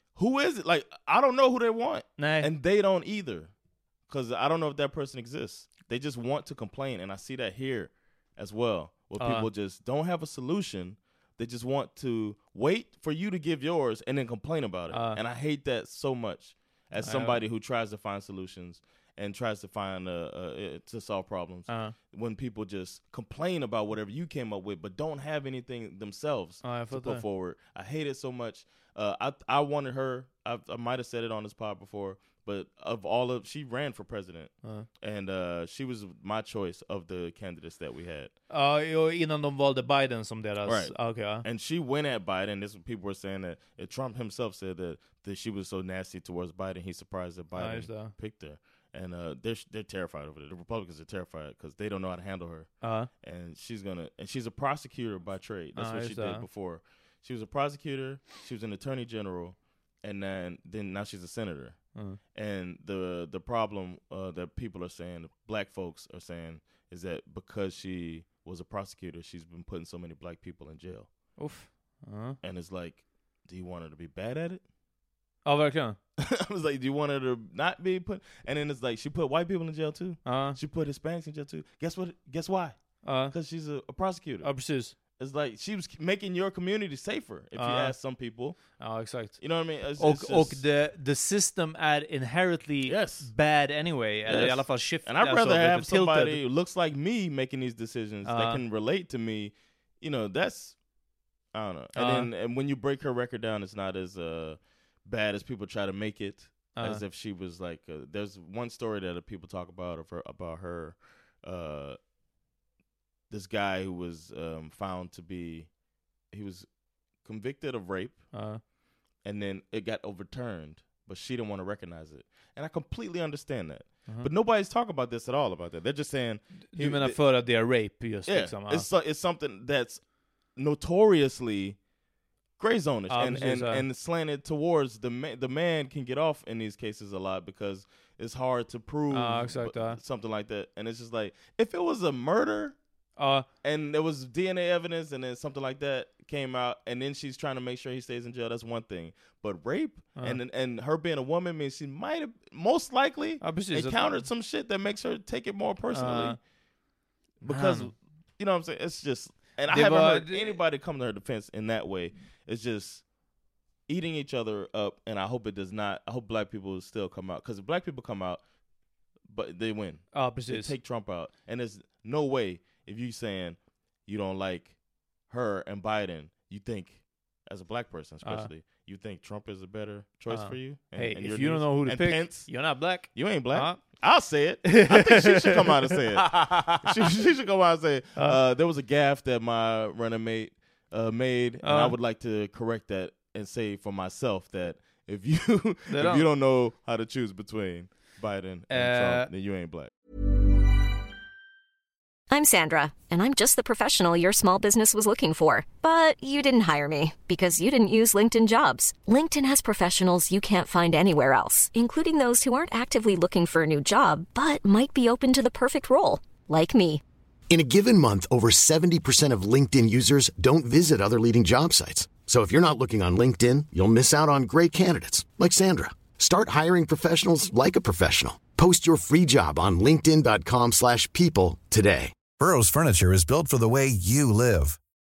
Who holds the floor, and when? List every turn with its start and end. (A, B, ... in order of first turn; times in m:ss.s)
0:00.1-0:03.5 A
0:02.2-0:02.5 B
0:04.0-0:38.3 A
0:09.2-0:09.5 B
0:14.9-0:15.2 B
0:17.0-0:17.4 B
0:21.7-0:21.9 B
0:26.6-0:27.2 B
0:38.5-0:41.4 B
0:40.6-1:11.1 A
0:47.6-0:48.1 B
0:52.8-0:53.1 B
0:55.8-0:56.4 B
1:11.4-1:12.4 B
1:12.4-1:14.6 A
1:15.4-1:16.0 B
1:16.2-1:30.6 A
1:20.2-1:20.6 B
1:23.0-1:23.3 B
1:24.4-1:24.9 B
1:27.6-1:28.0 B
1:28.6-1:29.5 B
1:30.0-1:36.4 B
1:32.8-1:33.3 A
1:34.2-1:52.0 A
1:38.2-1:38.6 B
1:41.9-1:42.3 B
1:46.8-1:47.0 B
1:53.3-1:58.3 A
1:58.3-1:58.6 B
1:59.2-2:07.2 A
2:06.6-2:08.9 B
2:08.2-2:11.8 A
2:12.6-2:22.8 A
2:13.1-2:13.8 B
2:19.1-2:20.0 B
2:23.2-2:23.4 B
2:23.6-2:36.4 A
2:33.4-2:34.1 B
2:35.9-2:36.4 B
2:37.4-2:37.9 B
2:37.4-2:43.1 A
2:39.7-2:40.6 B
2:43.9-2:48.4 A
2:49.2-3:19.9 A
2:50.1-2:50.7 B
3:00.3-3:04.0 B
3:04.7-3:05.3 B
3:06.3-3:06.8 B
3:11.6-3:12.0 B
3:15.9-3:16.2 B
3:18.7-3:19.3 B
3:22.3-3:37.0 C
3:37.5-3:52.1 D
3:52.4-3:54.8 E